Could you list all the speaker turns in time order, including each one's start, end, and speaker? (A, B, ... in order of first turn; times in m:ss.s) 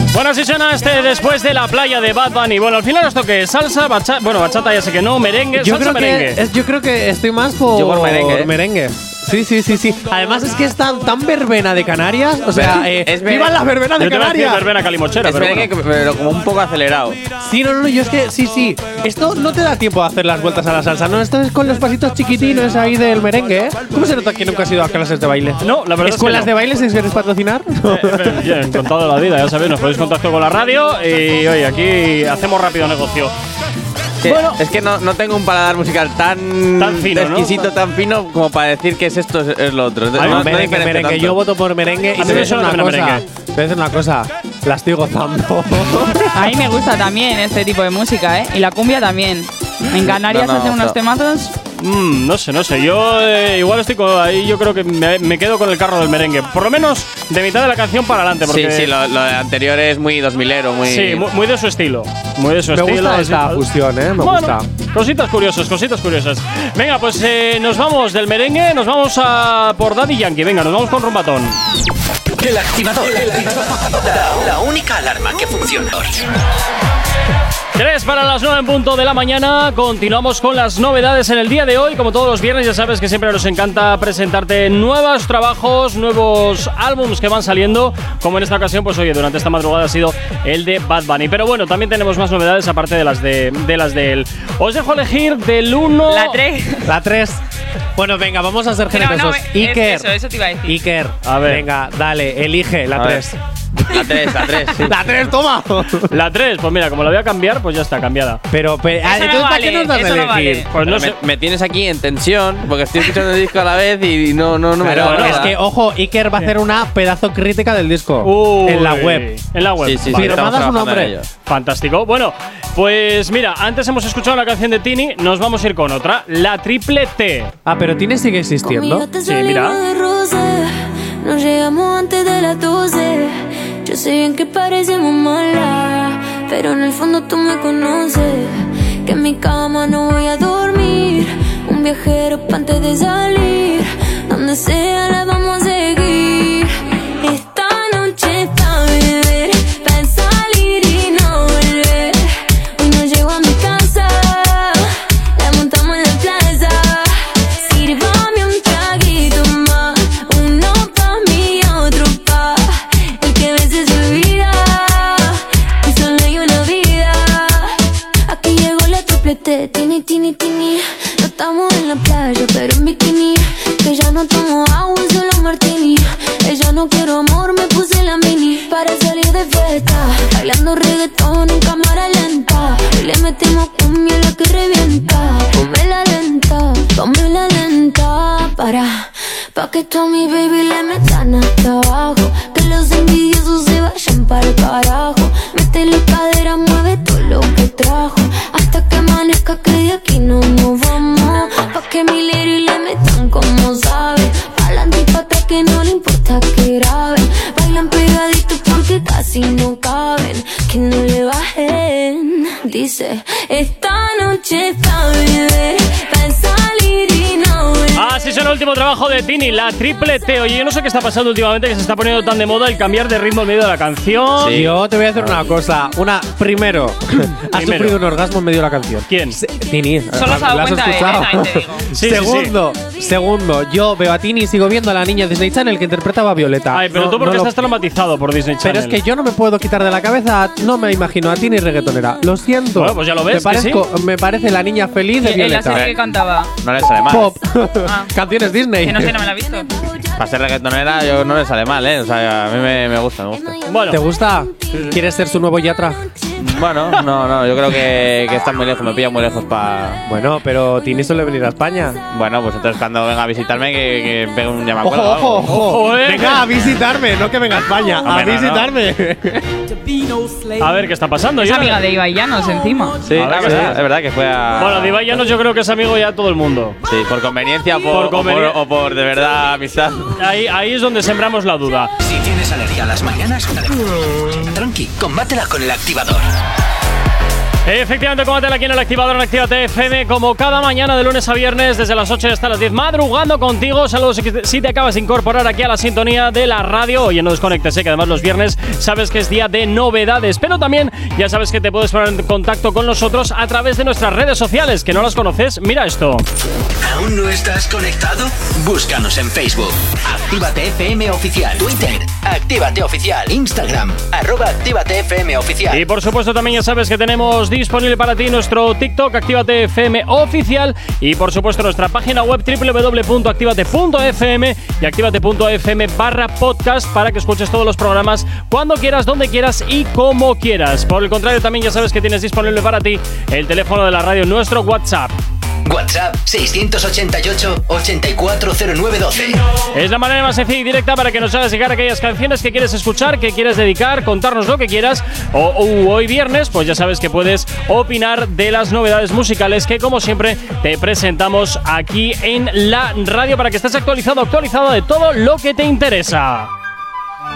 0:00.1-0:06.4 A
0:05.6-0:14.7 B
0:07.7-0:08.5 C
0:12.5-0:13.6 C
0:14.0-0:15.7 A
0:15.2-0:17.2 C
0:17.4-0:28.8 B
0:25.6-0:26.5 A
0:27.9-0:33.3 A
0:34.2-0:41.4 C
0:34.2-0:34.6 A
0:36.8-0:37.6 A
0:40.2-0:40.6 A
0:40.2-0:46.2 B
0:42.2-0:43.2 A
0:46.3-0:51.5 D
0:50.0-0:51.0 C
0:51.8-0:58.9 A
0:58.5-1:01.3 C
1:00.8-1:11.6 A
1:02.7-1:04.7 B
1:12.4-1:16.2 E
1:17.8-1:36.4 A
1:36.1-1:36.9 D
1:36.8-1:37.4 B
1:38.0-1:40.1 B
1:38.9-1:40.8 D
1:40.6-1:46.1 B
1:41.2-1:41.7 A
1:42.9-1:43.2 C
1:43.9-1:45.0 C
1:46.1-1:48.4 A
1:48.5-1:50.7 B
1:49.0-1:50.7 D
1:50.7-1:51.2 A
1:50.8-1:55.6 C
1:54.8-1:59.3 B
1:54.9-1:55.6 A
1:58.2-2:00.5 A
1:59.8-2:01.3 C
2:00.1-2:01.2 B
2:01.5-2:07.5 A
2:07.7-2:09.1 B
2:08.6-3:38.2 F
2:09.2-2:09.8 A
3:38.0-3:44.7 A
3:44.4-3:44.8 C
3:44.5-3:57.5 B
3:47.5-3:48.0 A
3:49.1-3:49.4 A
3:50.1-3:51.9 D
3:51.9-3:52.6 A
3:56.7-3:59.0 A
3:58.6-4:05.9 B
4:02.8-4:03.8 A
4:05.2-4:06.5 D
4:06.6-4:07.4 C
4:07.0-4:09.2 B
4:07.8-4:08.1 D
4:08.8-4:09.7 D
4:10.2-4:13.6 C
4:13.7-4:14.0 A
4:13.9-4:16.0 B
4:16.4-4:20.0 C
4:20.1-4:22.0 B
4:22.1-4:25.6 C
4:24.8-4:29.4 B
4:25.4-4:26.5 A
4:28.0-4:28.7 C
4:30.6-4:31.8 A
4:31.4-4:33.0 D
4:33.0-4:35.3 C
4:33.1-4:33.8 A
4:34.6-4:36.8 A
4:36.9-4:40.1 C
4:37.9-4:38.6 A
4:40.2-4:41.9 A
4:42.0-4:46.3 E
4:47.7-5:06.3 A
5:06.8-5:15.8 E
5:15.7-5:35.2 A
5:35.7-5:39.4 E
5:39.7-5:56.5 A